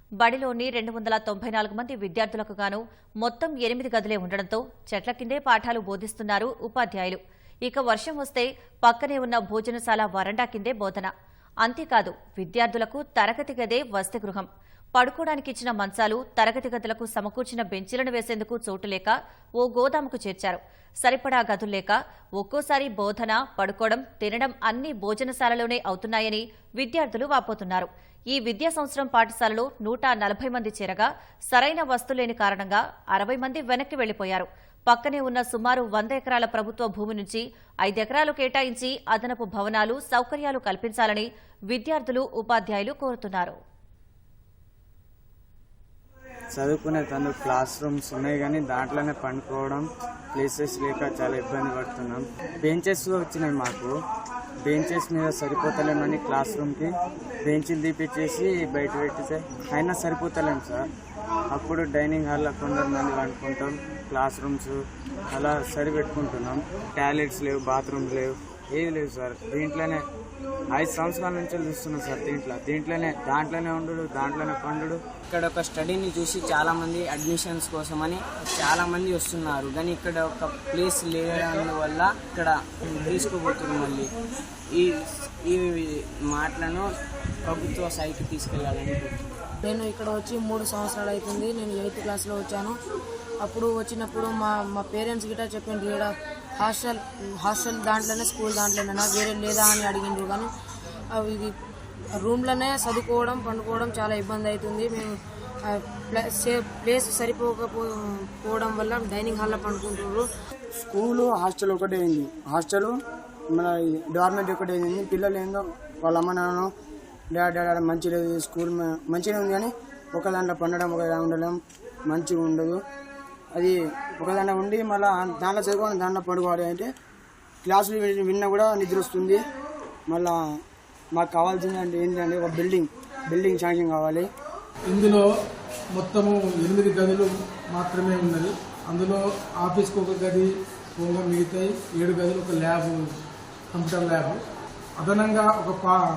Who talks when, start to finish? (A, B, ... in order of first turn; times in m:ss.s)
0:00.2-0:11.1 A
0:11.6-0:43.6 A
0:46.6-0:53.9 B
0:54.6-0:56.9 B
0:57.4-1:00.9 B
1:01.5-1:04.7 B
1:05.3-1:10.0 B
1:10.7-1:15.0 B
1:15.3-1:24.1 C
1:24.8-1:26.9 C
1:27.5-1:29.2 C
1:29.6-1:32.8 D
1:33.4-1:40.5 D
1:41.1-1:41.5 D
1:42.2-1:50.3 D
1:50.8-1:53.0 E
1:53.5-1:56.7 E
1:57.3-2:02.8 E
2:03.5-2:06.9 E
2:07.6-2:09.4 E
2:10.1-2:10.4 E
2:11.2-2:14.3 E
2:14.9-2:15.2 F
2:16.0-2:23.0 F
2:23.7-2:24.4 F
2:25.0-2:26.0 F